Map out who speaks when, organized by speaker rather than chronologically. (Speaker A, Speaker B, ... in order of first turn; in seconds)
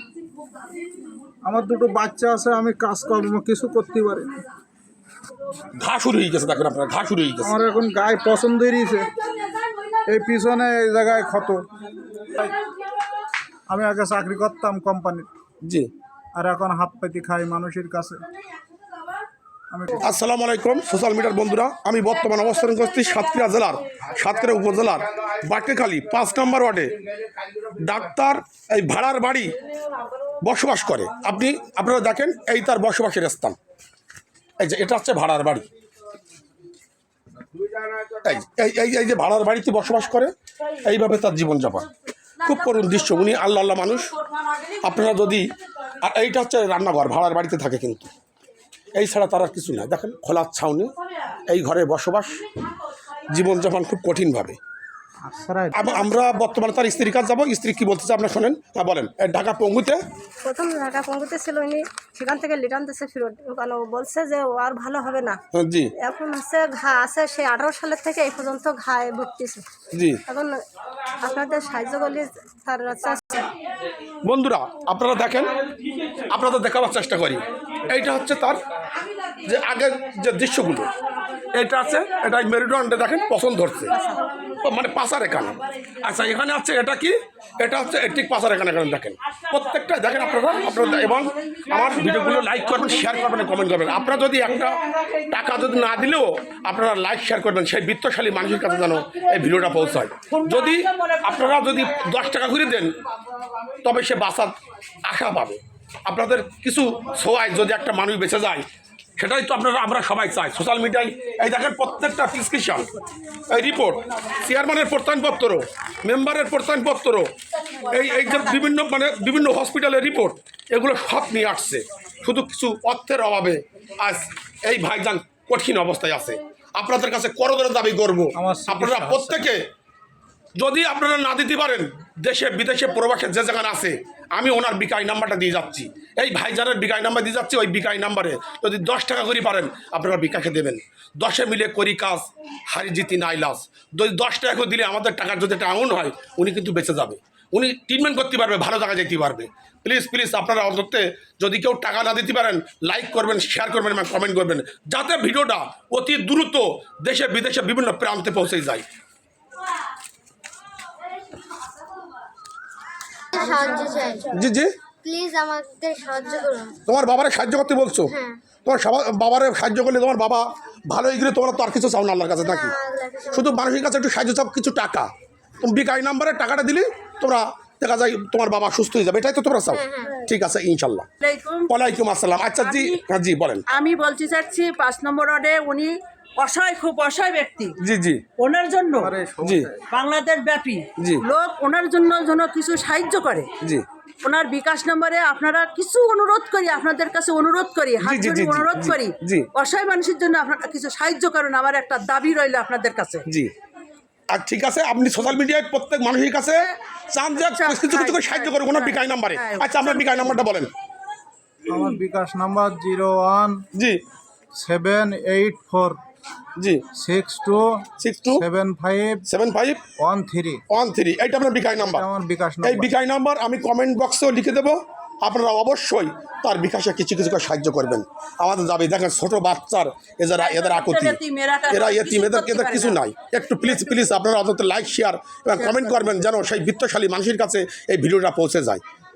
Speaker A: 1.4-4.3, 7.4-9.1, 10.1-11.6, 13.7-15.3, 16.3-18.2, 19.7-20.1, 55.2-56.0, 128.3-129.4, 189.0-189.8, 211.7-213.6, 214.5-216.0, 216.9-219.2, 220.0-220.6, 221.8-222.9
Speaker B: 5.8-7.5, 15.6-15.9, 20.0-26.9, 27.8-29.5, 30.4-33.5, 34.6-35.6, 38.1-40.3, 40.8-41.9, 42.4-44.1, 44.8-45.5, 46.0-48.1, 49.0-50.9, 51.5-52.4, 53.3-54.6, 55.7-60.0, 65.5-65.9, 69.9-70.2, 74.2-75.5, 76.3-78.6, 79.5-80.9, 81.5-83.9, 84.6-102.9, 103.8-108.7, 109.2-112.9, 113.5-117.3, 117.9-129.6, 130.6-158.8, 164.3-164.7, 166.8-172.7, 173.3-181.1, 181.7-183.6, 187.8-188.2, 189.4-189.7, 191.0-191.2, 198.0-199.5, 203.3-203.5, 204.3-210.7, 213.7-214.0, 216.6-216.8, 218.0-218.4, 219.2-219.8, 220.7-222.1, 222.6-238.8
Speaker C: 60.4-65.4, 66.0-69.6, 70.3-70.6, 71.2-73.5, 84.0-84.2
Speaker D: 100.3-101.6, 181.2-181.7, 182.6-183.0, 183.7-187.8, 188.4-189.1, 189.9-193.5, 194.2-203.2, 207.3-210.4, 230.4-233.0, 235.6-236.2
Speaker E: 163.3-164.4, 165.0-166.8, 168.1-168.4, 172.4-173.5, 179.7-180.2